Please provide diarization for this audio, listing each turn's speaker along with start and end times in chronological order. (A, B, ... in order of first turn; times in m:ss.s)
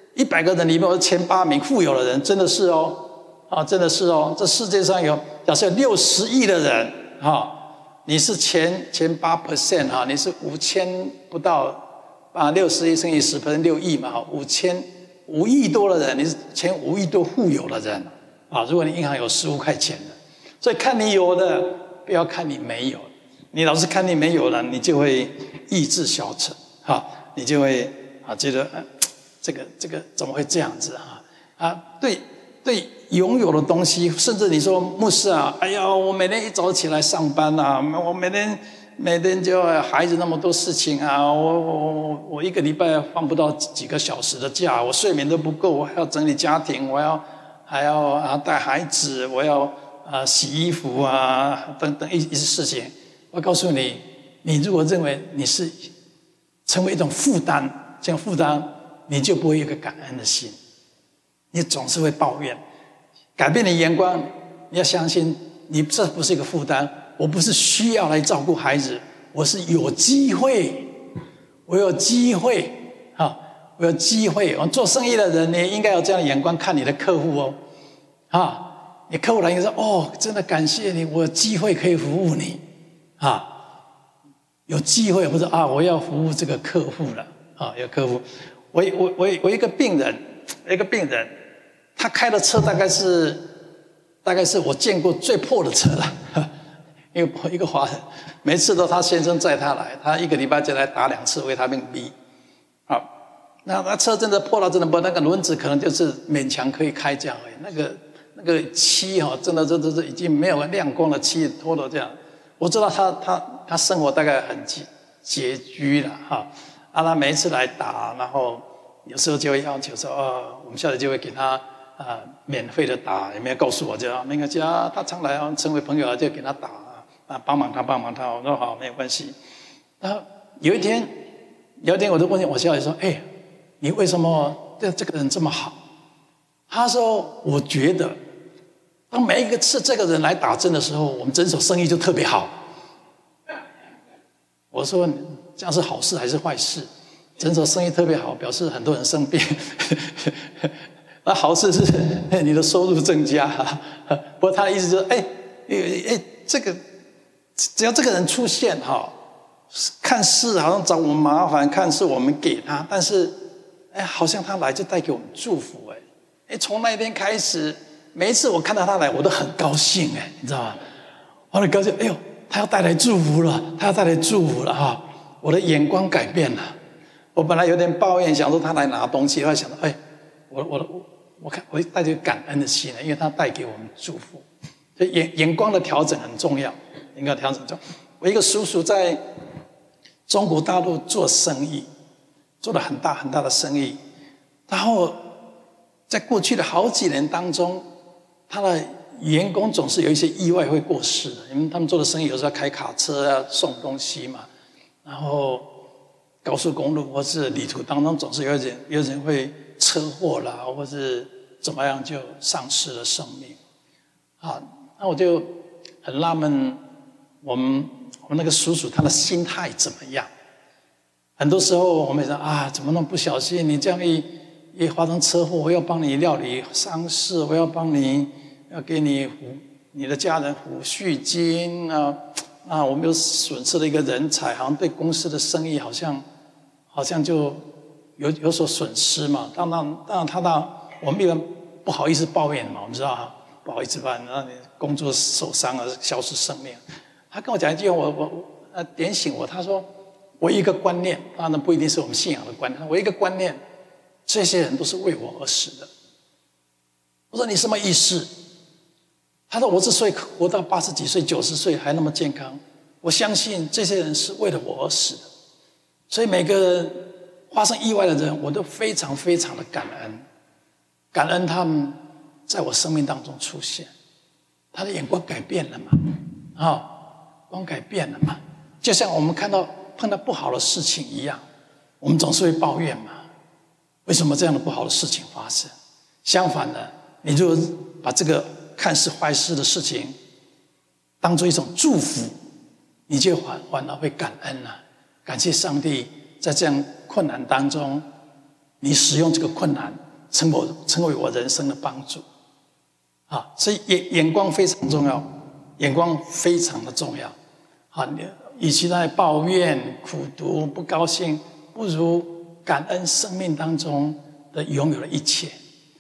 0:00.1-0:55.9 A
0:56.7-1:00.6 A
1:01.5-1:02.6 A
1:03.4-1:10.9 A
1:11.7-1:17.6 A
1:18.3-1:22.6 A
1:23.2-1:23.6 A
1:24.7-1:31.4 A
1:32.0-1:33.5 A
1:34.2-1:36.5 A
1:37.1-1:42.1 A
1:43.6-2:09.4 A
2:10.0-2:11.1 A
2:11.8-2:13.2 A
2:13.8-2:15.8 A
2:16.7-2:18.2 A
2:19.1-2:22.5 A
2:24.7-2:26.9 A
2:27.4-2:30.7 A
2:31.2-2:36.8 A
2:37.6-2:39.2 A
2:39.7-2:50.8 A
2:51.5-2:56.8 A
2:57.4-3:00.0 A
3:00.5-3:09.2 A
3:10.3-3:11.9 A
3:12.6-3:14.0 A
3:14.7-3:15.3 A
3:16.1-3:17.8 A
3:18.5-3:24.5 A
3:25.0-3:25.7 A
3:26.4-3:33.6 A
3:34.4-3:36.8 A
3:37.4-3:40.3 A
3:41.4-3:56.2 A
3:56.9-4:06.8 A
4:07.3-4:09.9 A
4:10.4-4:13.6 A
4:14.3-4:15.9 A
4:17.3-4:18.3 A
4:19.5-4:25.2 A
4:26.1-4:30.3 A
4:31.1-4:33.9 A
4:34.7-4:37.0 A
4:37.5-4:41.4 A
4:42.0-4:43.2 A
4:44.1-4:45.7 A
4:46.2-4:50.2 A
4:51.2-4:52.4 A
4:53.1-4:58.1 A
4:58.8-5:02.2 A
5:03.3-5:07.4 A
5:07.9-5:15.6 A